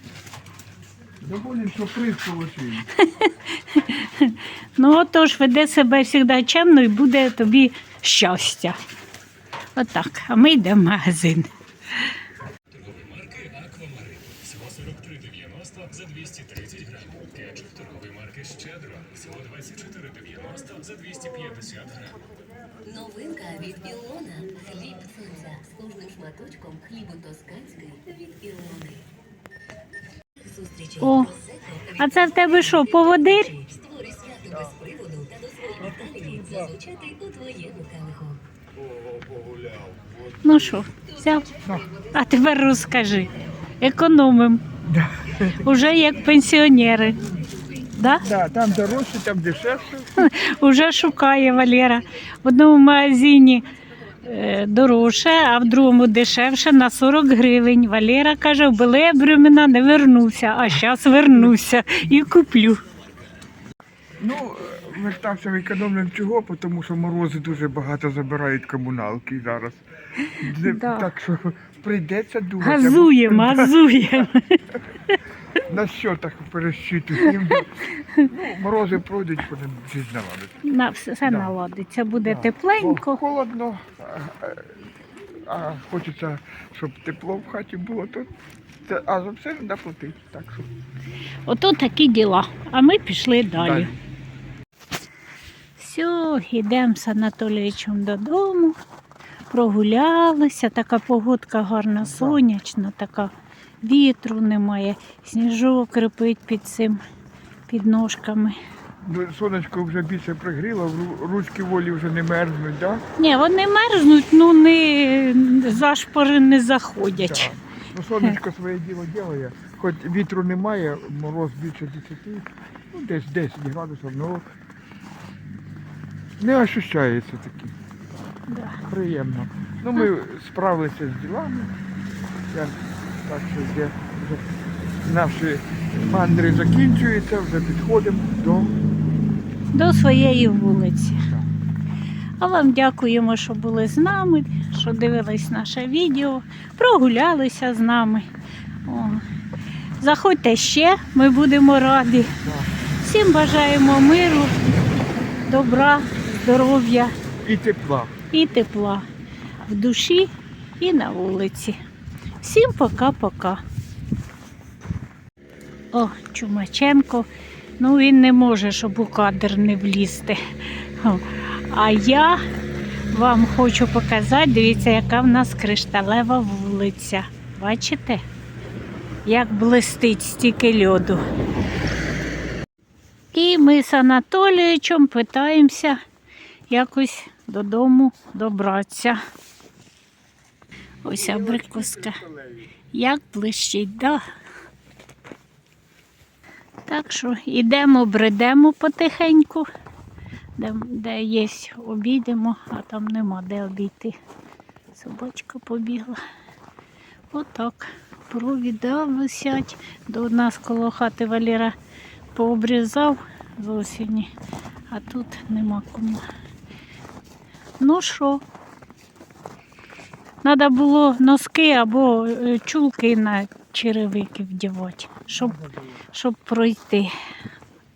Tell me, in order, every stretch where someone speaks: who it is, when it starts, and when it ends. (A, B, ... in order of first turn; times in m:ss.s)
0:01.2-0:02.9 A
0:03.0-0:08.8 B
0:09.8-0:11.5 B
0:12.8-0:22.2 C
0:22.9-0:28.9 D
0:31.0-0:33.6 B
0:33.8-0:36.2 D
0:35.8-0:36.7 A
0:36.7-0:38.4 D
0:40.4-0:41.5 B
0:42.1-0:44.6 B
0:44.8-0:45.6 A
0:45.6-0:47.2 B
0:47.9-0:48.2 B
0:48.2-0:50.2 A
0:50.2-0:53.6 B
0:54.2-1:02.8 B
1:01.3-1:01.5 A
1:04.2-1:09.8 A
1:10.2-1:11.1 B
1:10.4-1:14.0 A
1:12.6-1:15.2 B
1:15.6-1:20.6 A
1:17.3-1:18.2 B
1:20.6-1:23.2 B
1:21.2-1:21.5 A
1:22.2-1:24.7 A
1:25.5-1:28.3 A
1:28.8-1:30.7 A
1:31.5-1:33.9 B
1:33.6-1:34.0 A
1:35.8-1:38.8 B
1:39.5-1:47.0 B
1:42.0-1:42.4 A
1:47.7-1:48.6 B
1:49.0-1:53.0 A
1:53.2-1:57.5 B
1:57.1-2:04.4 A
2:06.4-2:07.7 A
2:08.5-2:08.8 B
2:08.8-2:11.7 A
2:12.5-2:14.5 A
2:15.0-2:18.8 A
2:19.7-2:21.2 B
2:22.4-2:28.3 B
2:28.9-2:29.2 B
2:30.0-2:32.4 B
2:32.4-2:32.7 A
2:33.0-2:34.6 B
2:35.5-2:37.1 B
2:37.4-2:38.1 A
2:38.3-2:39.1 B
2:39.6-2:41.8 B
2:42.4-2:43.6 B
2:45.9-2:47.3 B
2:47.8-2:52.4 B
2:53.1-2:58.2 B
2:59.3-3:01.2 B
3:03.3-3:06.0 B
3:06.7-3:09.2 B
3:11.0-3:12.2 B
3:11.1-3:12.7 A
3:12.9-3:14.2 B
3:16.9-3:19.7 B
3:20.6-3:24.1 B
3:24.9-3:26.2 B
3:27.3-3:31.8 B
3:32.3-3:34.3 B
3:34.9-3:36.2 B
3:37.8-3:38.4 B
3:40.4-3:47.1 B